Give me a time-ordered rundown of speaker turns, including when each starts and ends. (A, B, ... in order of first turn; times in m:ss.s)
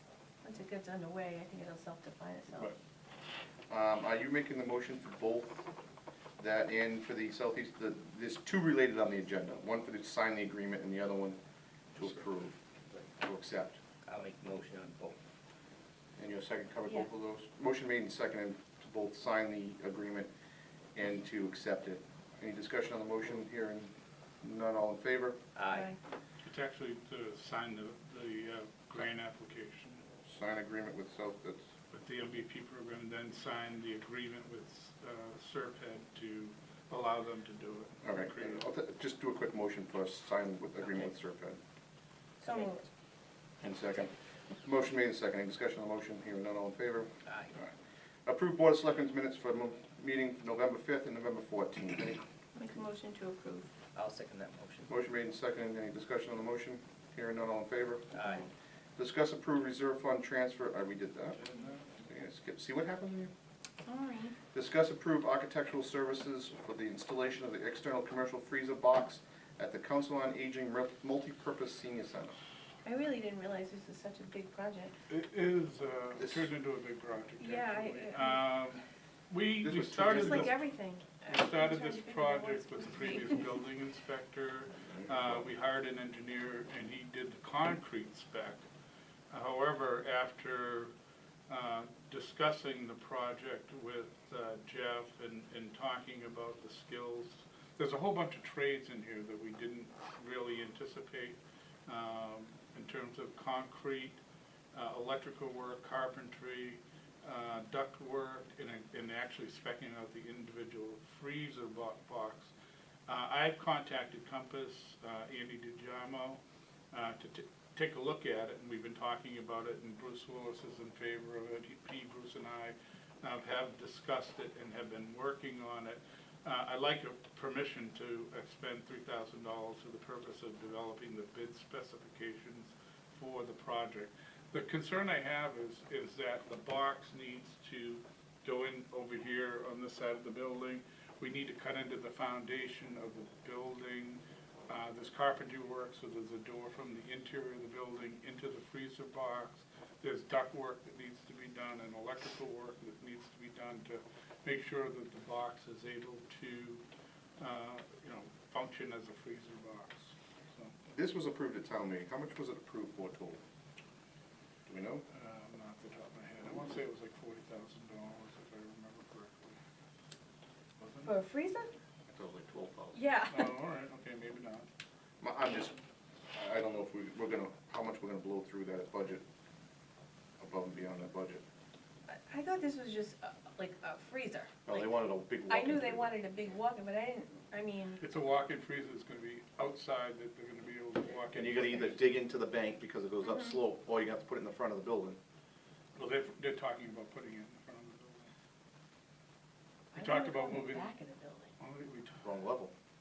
0:00.4-0:02.7 A
0:03.7-0:05.7 B
0:06.4-0:11.4 B
0:12.0-0:12.6 B
0:13.2-0:13.8 B
0:14.0-0:15.2 C
0:16.2-0:20.3 B
0:20.9-0:25.4 B
0:25.5-0:25.9 C
0:25.7-0:26.0 A
0:26.4-0:30.0 D
0:30.2-0:31.6 B
0:31.9-0:38.6 D
0:38.0-0:41.6 B
0:42.4-0:42.8 A
0:43.6-0:44.1 B
0:44.6-0:47.7 B
0:47.2-0:47.5 C
0:48.2-0:52.2 B
0:52.5-0:53.7 A
0:53.9-0:55.0 C
0:54.9-0:58.1 B
0:58.1-0:58.5 C
0:59.0-1:01.4 B
1:01.3-1:02.1 D
1:02.0-1:03.3 B
1:03.8-1:04.4 A
1:04.5-1:12.4 B
1:12.8-1:14.9 A
1:15.1-1:20.6 D
1:16.2-1:16.5 B
1:17.4-1:18.4 A
1:19.6-1:20.5 B
1:20.0-1:23.4 A
1:21.3-1:28.6 D
1:24.9-1:25.5 B
1:29.3-1:30.9 D
1:31.5-1:44.2 D
1:44.7-1:52.5 D
1:53.1-1:56.4 D
1:56.9-2:36.8 D
2:37.4-2:40.7 D
2:40.9-2:43.4 B
2:44.7-2:45.0 B
2:45.1-2:49.6 D
2:50.8-2:51.1 D
2:51.0-2:51.7 A
2:52.1-2:53.0 B
2:52.9-2:53.5 A
2:53.3-2:54.7 D
2:55.2-2:55.7 B
2:56.3-2:59.2 B
3:00.4-3:01.4 B
3:02.1-3:04.8 A
3:04.6-3:06.1 B
3:05.5-3:08.0 A
3:08.0-3:12.0 D
3:11.3-3:15.2 B
3:13.2-3:13.5 A
3:16.0-3:18.3 D
3:19.9-3:21.5 A
3:20.0-3:20.9 D
3:21.6-3:22.3 D
3:22.2-3:22.7 B